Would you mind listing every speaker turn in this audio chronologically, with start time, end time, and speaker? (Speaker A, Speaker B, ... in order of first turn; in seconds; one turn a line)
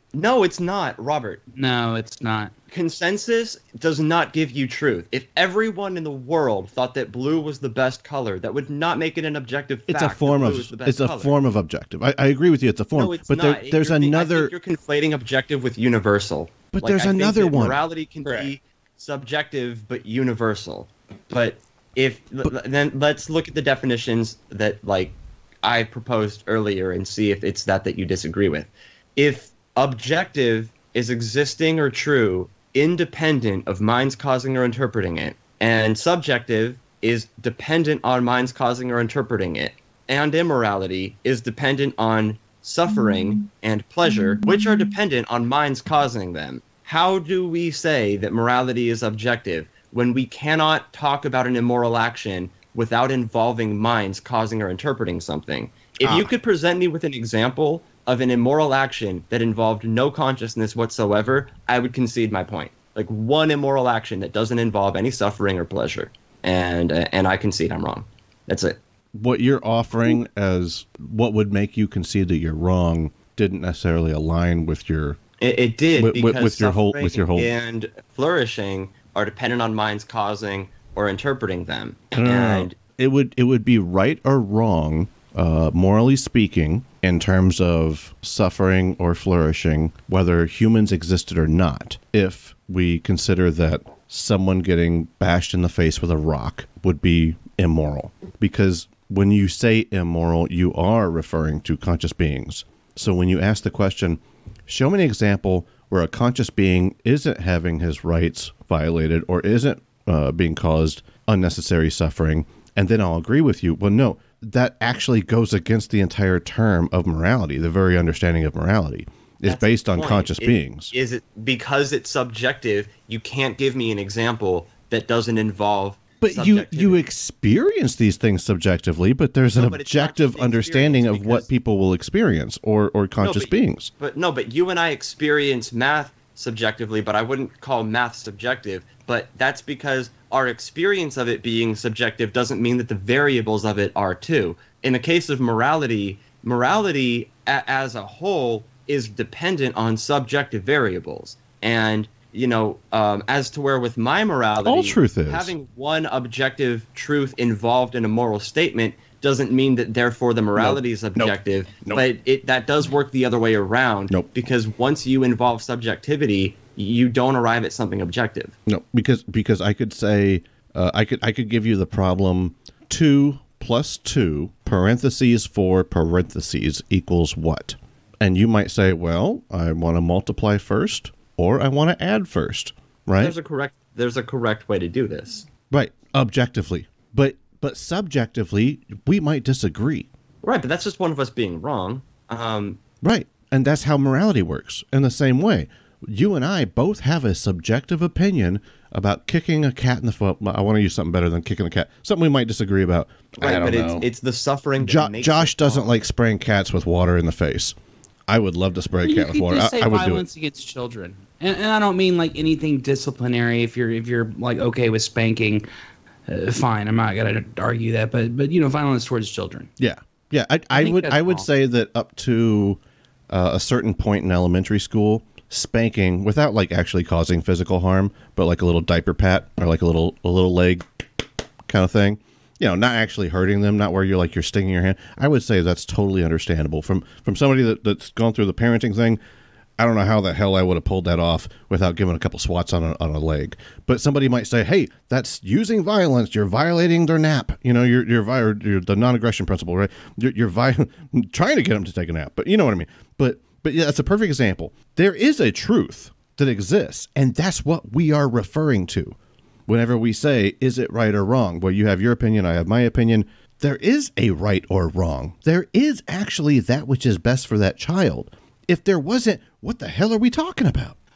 Speaker A: 0.1-1.4
Speaker B: 1.5-2.5
Speaker A: 2.7-11.3
Speaker C: 9.9-14.5
Speaker A: 12.9-68.8
Speaker C: 16.7-17.8
Speaker B: 18.2-18.5
Speaker C: 56.0-56.3
Speaker C: 69.1-75.2
Speaker A: 75.4-82.8
Speaker C: 76.0-77.5
Speaker C: 82.1-120.9
Speaker A: 119.5-127.0
Speaker C: 126.2-133.9
Speaker A: 129.5-131.5
Speaker A: 133.2-168.5
Speaker C: 154.6-155.5
Speaker C: 160.6-162.0
Speaker C: 168.7-183.3
Speaker A: 183.2-185.4
Speaker C: 185.7-190.1
Speaker A: 190.4-192.8
Speaker C: 193.0-204.1
Speaker A: 203.4-205.9
Speaker C: 204.8-207.8
Speaker C: 208.3-210.2
Speaker B: 209.0-215.6
Speaker B: 216.3-219.7
Speaker C: 219.8-231.1
Speaker B: 220.7-221.5
Speaker C: 231.7-239.2
Speaker C: 239.8-259.1
Speaker C: 259.7-270.9